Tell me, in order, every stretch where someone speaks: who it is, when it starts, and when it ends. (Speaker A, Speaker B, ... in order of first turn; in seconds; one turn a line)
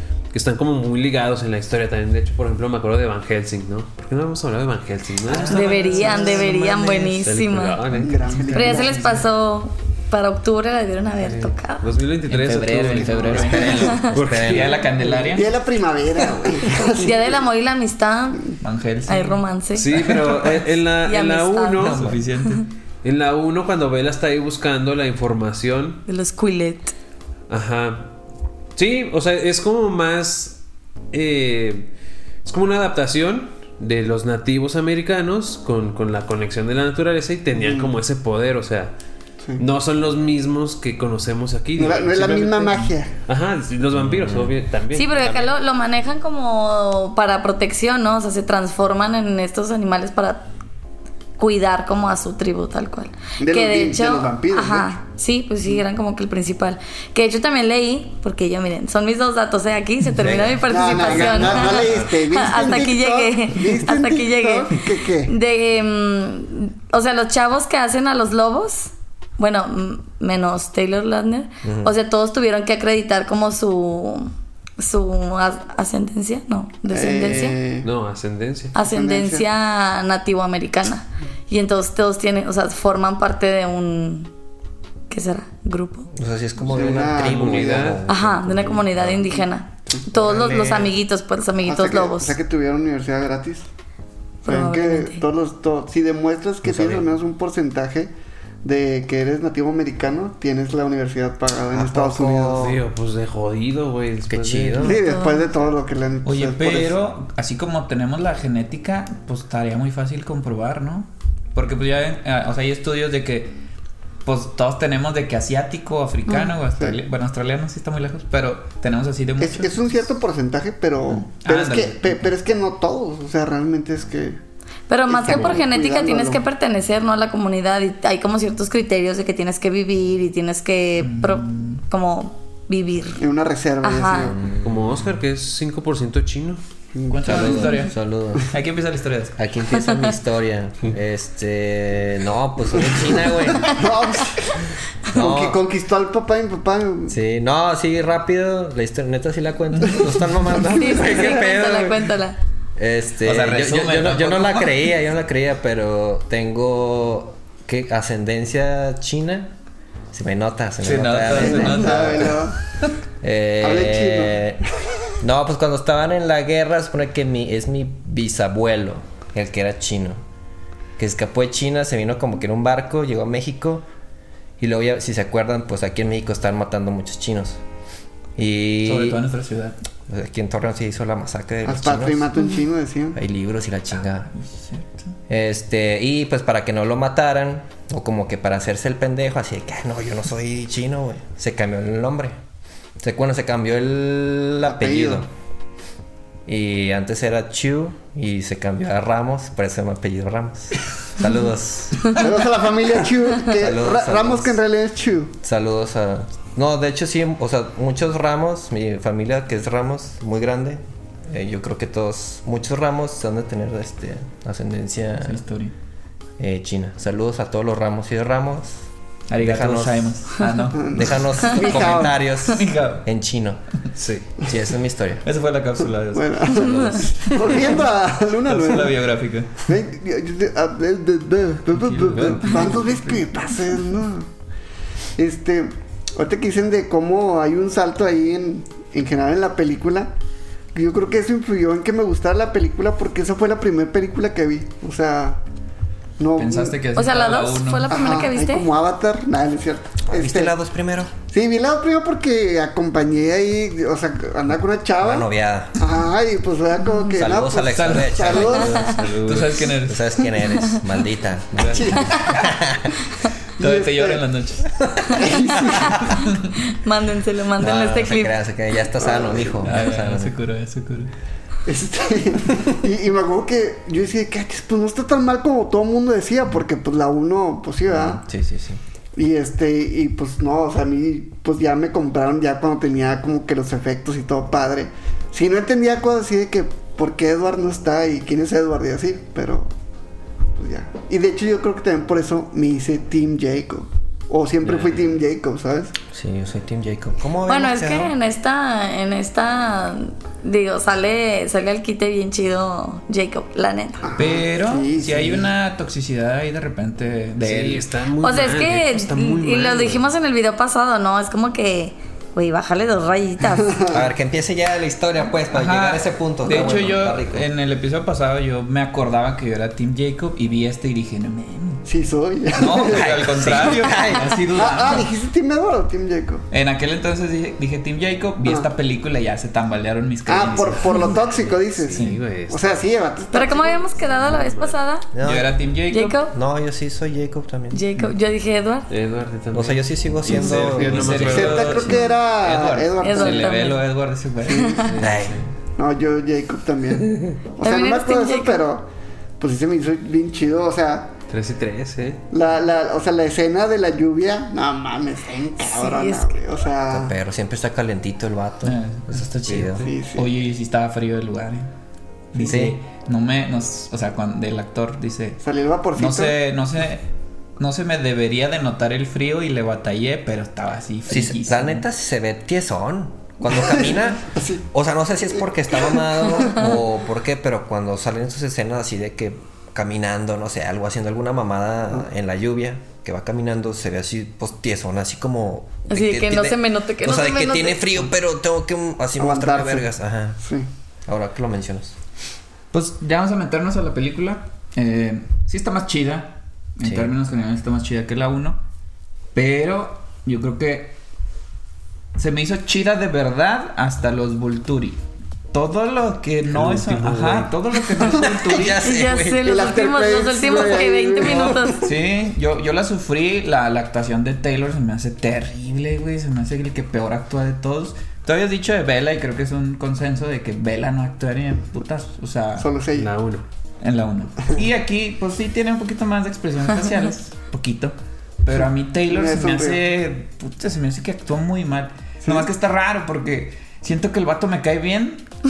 Speaker A: 0.3-8.4
Speaker B: 5.3-6.4
Speaker C: 5.4-7.8
Speaker D: 5.5-7.2
Speaker B: 7.9-9.3
Speaker D: 8.0-9.0
Speaker C: 8.5-11.9
Speaker A: 11.2-14.9
Speaker B: 12.3-15.6
Speaker D: 12.9-14.0
Speaker C: 13.8-14.1
Speaker E: 14.2-14.9
Speaker D: 14.9-17.4
Speaker C: 16.8-18.5
Speaker B: 18.6-19.4
Speaker C: 19.1-22.6
Speaker A: 19.8-22.1
Speaker B: 19.9-20.6
Speaker B: 21.8-22.7
Speaker A: 23.0-26.0
Speaker C: 26.1-26.9
Speaker A: 27.5-28.1
Speaker A: 28.8-30.6
Speaker A: 31.1-31.9
Speaker A: 32.5-38.9
Speaker D: 37.6-37.9
Speaker A: 39.6-45.6
Speaker D: 41.8-43.1
Speaker E: 44.0-44.5
Speaker C: 44.9-50.5
Speaker C: 51.4-77.6
Speaker D: 53.4-55.0
Speaker E: 60.2-62.1
Speaker D: 60.6-65.3
Speaker E: 71.6-71.9
Speaker D: 76.9-77.9
Speaker A: 77.8-78.8
Speaker C: 78.7-84.3
Speaker D: 78.8-79.5
Speaker C: 85.1-86.1
Speaker E: 86.1-89.2
Speaker D: 86.6-88.1
Speaker A: 86.8-88.0
Speaker C: 88.1-92.3
Speaker D: 89.1-90.0
Speaker E: 90.1-91.0
Speaker D: 91.6-93.7
Speaker C: 94.5-95.2
Speaker D: 94.5-98.1
Speaker E: 96.7-97.1
Speaker D: 98.6-102.7
Speaker E: 101.7-102.8
Speaker A: 102.6-104.9
Speaker E: 104.3-105.0
Speaker D: 104.8-106.9
Speaker C: 104.8-105.7
Speaker B: 106.2-113.6
Speaker B: 114.2-119.7
Speaker C: 116.3-116.5
Speaker D: 119.4-124.4
Speaker B: 121.1-122.3
Speaker C: 124.9-133.2
Speaker D: 125.1-126.4
Speaker B: 131.0-131.8
Speaker D: 133.2-134.4
Speaker C: 133.8-134.3
Speaker E: 134.2-135.2
Speaker A: 134.6-136.6
Speaker D: 136.9-137.7
Speaker B: 137.1-139.4
Speaker E: 137.2-138.5
Speaker E: 139.4-143.8
Speaker D: 142.8-147.2
Speaker E: 145.1-145.6
Speaker E: 147.1-152.2
Speaker B: 149.7-150.3
Speaker C: 150.7-152.4
Speaker E: 152.8-159.5
Speaker B: 153.2-154.8
Speaker E: 160.1-162.3
Speaker B: 160.8-162.9
Speaker D: 161.3-162.6
Speaker E: 163.2-164.6
Speaker D: 163.6-164.5
Speaker E: 165.2-170.2
Speaker E: 171.0-173.8
Speaker E: 174.6-177.6
Speaker E: 178.4-179.2
Speaker B: 178.8-179.8
Speaker E: 180.1-182.3
Speaker D: 181.7-183.2
Speaker E: 183.2-184.3
Speaker B: 183.9-185.2
Speaker E: 185.3-192.4
Speaker E: 193.0-195.3
Speaker D: 194.6-195.3
Speaker E: 196.5-202.3
Speaker D: 202.1-205.3
Speaker E: 203.4-204.6
Speaker E: 205.4-215.4
Speaker B: 215.2-215.7
Speaker E: 216.4-218.8
Speaker B: 219.3-223.1
Speaker E: 219.4-220.3
Speaker D: 220.8-222.1
Speaker E: 220.9-223.6
Speaker A: 224.0-224.3
Speaker E: 224.5-225.2
Speaker B: 225.2-227.8
Speaker D: 226.1-229.1
Speaker B: 228.4-229.7
Speaker D: 229.7-234.3
Speaker B: 231.8-233.5
Speaker A: 232.1-232.4
Speaker D: 235.2-240.1
Speaker D: 240.7-245.4
Speaker D: 246.2-246.8
Speaker B: 246.4-248.2
Speaker C: 247.0-248.7
Speaker D: 247.9-250.6
Speaker E: 250.1-251.1
Speaker D: 251.3-259.1
Speaker E: 255.0-255.9
Speaker C: 256.8-257.1
Speaker E: 257.1-259.0
Speaker B: 257.7-258.3
Speaker A: 258.4-259.7
Speaker B: 259.2-260.1
Speaker E: 259.8-262.9
Speaker A: 261.6-262.0
Speaker D: 261.6-262.5
Speaker D: 263.6-264.2
Speaker B: 263.6-265.3
Speaker D: 265.1-266.1
Speaker E: 265.7-266.0
Speaker B: 265.9-266.6
Speaker C: 266.5-268.4
Speaker E: 267.6-270.4
Speaker D: 269.1-269.6
Speaker B: 269.6-271.1
Speaker D: 271.7-278.2
Speaker E: 277.9-278.8
Speaker D: 279.1-289.7
Speaker D: 290.6-295.9
Speaker A: 294.6-295.1
Speaker E: 296.1-298.1
Speaker C: 297.5-304.1
Speaker D: 304.0-305.5
Speaker B: 304.2-307.9
Speaker A: 307.4-310.1
Speaker C: 308.2-313.8
Speaker D: 313.7-314.0
Speaker E: 313.9-317.5
Speaker B: 315.5-321.9
Speaker D: 321.9-326.5
Speaker B: 322.5-325.1
Speaker E: 322.8-324.5
Speaker B: 326.5-331.2
Speaker D: 328.4-328.7
Speaker D: 330.3-333.9
Speaker A: 331.2-332.9
Speaker B: 331.9-332.2
Speaker C: 333.3-335.1
Speaker A: 334.0-334.8
Speaker E: 335.1-335.6
Speaker B: 335.2-336.2
Speaker C: 335.9-336.3
Speaker E: 336.3-337.8
Speaker C: 337.7-338.9
Speaker A: 338.9-341.8
Speaker E: 339.5-342.1
Speaker B: 340.3-345.1
Speaker D: 341.2-343.6
Speaker C: 343.0-343.8
Speaker C: 344.5-344.9
Speaker A: 344.8-345.5
Speaker E: 345.0-345.4
Speaker D: 345.8-348.9
Speaker C: 347.6-348.6
Speaker D: 349.4-351.1
Speaker A: 351.3-352.2
Speaker D: 352.3-357.1
Speaker C: 355.6-356.4
Speaker E: 356.9-359.9
Speaker B: 358.6-361.7
Speaker A: 359.5-359.9
Speaker D: 359.8-360.3
Speaker B: 362.3-365.4
Speaker E: 362.4-362.8
Speaker D: 365.4-366.4
Speaker B: 366.0-367.1
Speaker B: 367.6-371.9
Speaker E: 371.1-390.4
Speaker D: 373.4-374.6
Speaker D: 375.4-376.7
Speaker C: 385.9-388.0
Speaker D: 389.2-389.9
Speaker D: 390.4-390.7
Speaker E: 391.1-392.0
Speaker B: 392.7-398.6
Speaker E: 396.8-397.1
Speaker B: 399.3-401.0
Speaker B: 402.2-405.0
Speaker B: 405.5-408.8
Speaker A: 406.5-407.5
Speaker E: 408.1-409.6
Speaker C: 408.8-411.8
Speaker D: 409.4-411.9
Speaker B: 411.8-422.7
Speaker D: 422.6-423.1
Speaker A: 422.9-423.4
Speaker B: 423.8-435.3
Speaker D: 429.1-429.8
Speaker D: 432.2-432.5